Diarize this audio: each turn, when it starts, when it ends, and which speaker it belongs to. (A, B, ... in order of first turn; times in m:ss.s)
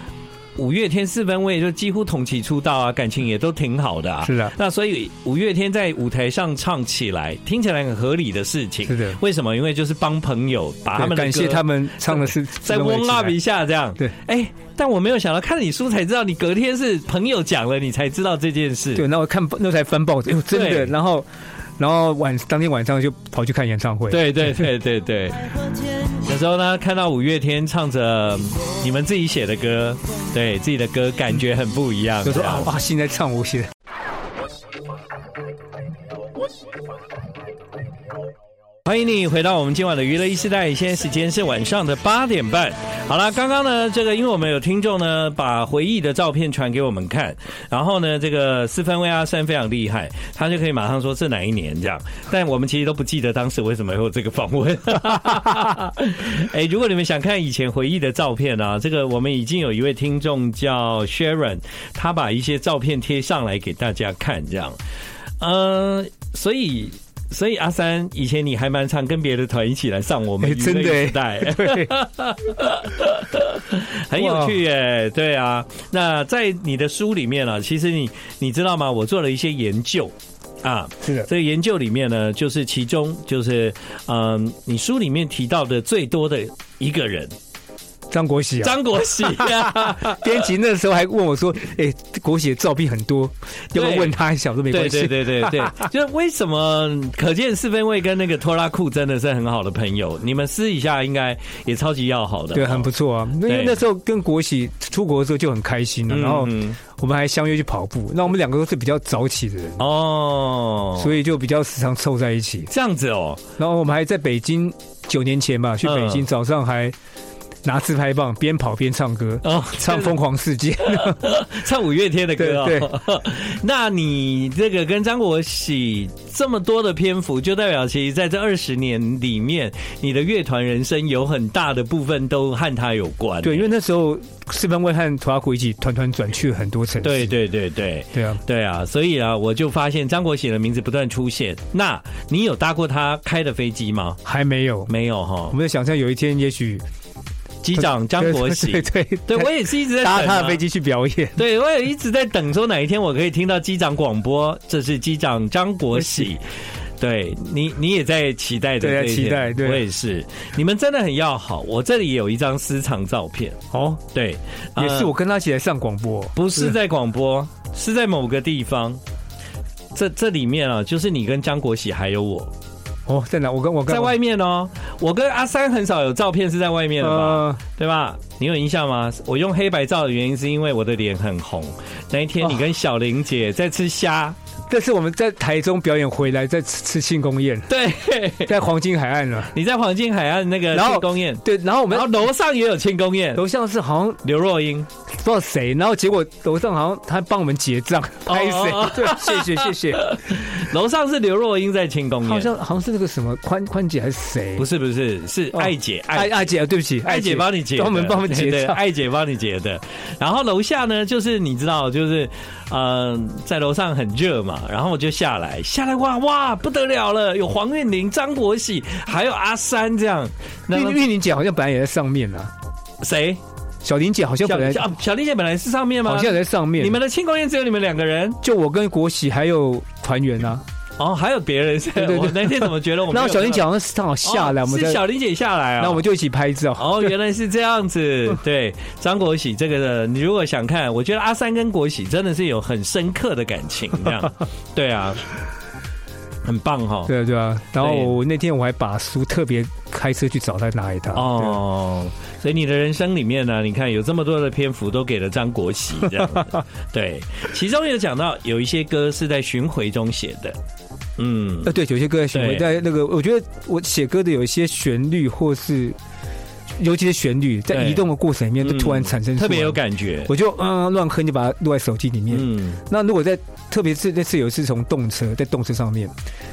0:00.6-0:19.0 A
0:04.2-0:04.5 B
0:08.9-0:09.2 B
0:11.0-0:13.4 B
0:18.9-0:24.7 B
0:20.5-0:20.9 A
0:24.1-0:32.7 A
0:32.2-0:33.7 B
0:38.8-1:04.8 A
1:05.4-1:27.3 A
1:10.4-1:11.9 B
1:14.2-1:14.6 B
1:28.1-1:35.9 B
1:28.6-1:30.4 A
1:33.7-1:34.2 A
1:34.7-1:42.9 A
1:42.5-1:49.8 B
1:43.4-1:43.8 A
1:46.1-1:46.8 A
1:49.8-1:51.1 A
1:51.0-1:52.7 B
1:52.7-1:53.4 A
1:53.6-1:56.9 B
1:55.8-1:56.3 A
1:57.6-2:01.3 B
1:59.4-2:00.2 A
2:00.8-2:13.7 A
2:02.4-2:02.9 B
2:13.4-2:17.3 B
2:17.0-2:24.2 A
2:18.1-2:18.4 B
2:24.2-2:24.9 B
2:24.9-2:25.6 A
2:25.5-2:26.8 B
2:27.6-2:30.6 A
2:27.7-2:31.4 B
2:31.4-2:43.6 A
2:35.9-2:36.3 B
2:38.8-2:39.8 B
2:43.7-2:44.0 B
2:44.1-2:45.1 A
2:44.8-2:46.7 B
2:46.3-2:49.0 A
2:49.9-2:52.5 A
2:53.1-2:54.2 B
2:53.9-3:04.4 A
2:57.0-2:57.6 B
3:04.7-3:07.7 B
3:07.7-3:08.5 A
3:08.4-3:09.5 B
3:09.5-3:13.4 A
3:10.7-3:12.3 B
3:13.4-3:14.2 B
3:14.2-3:14.9 A
3:15.1-3:20.1 B
3:18.3-3:22.5 A
3:22.2-3:24.7 B
3:24.6-3:26.5 A
3:25.5-3:28.8 B
3:27.0-3:41.0 A
3:40.7-3:42.5 B
3:43.0-3:43.4 A
3:43.8-3:44.9 B
3:44.4-3:48.4 A
3:46.0-3:47.0 B
3:48.4-3:50.6 B
3:51.0-3:53.7 A
3:52.0-3:55.0 B
3:54.2-3:56.0 A
3:55.8-3:57.1 B
3:56.8-4:05.2 A
4:06.4-4:07.1 A
4:07.1-4:11.6 B
4:07.8-4:08.2 A
4:11.1-4:20.6 A
4:21.2-4:21.7 A
4:21.6-4:26.0 B
4:22.3-4:22.7 A
4:26.8-4:36.1 B
4:27.7-4:28.0 A
4:28.6-4:30.3 A
4:32.3-4:32.8 A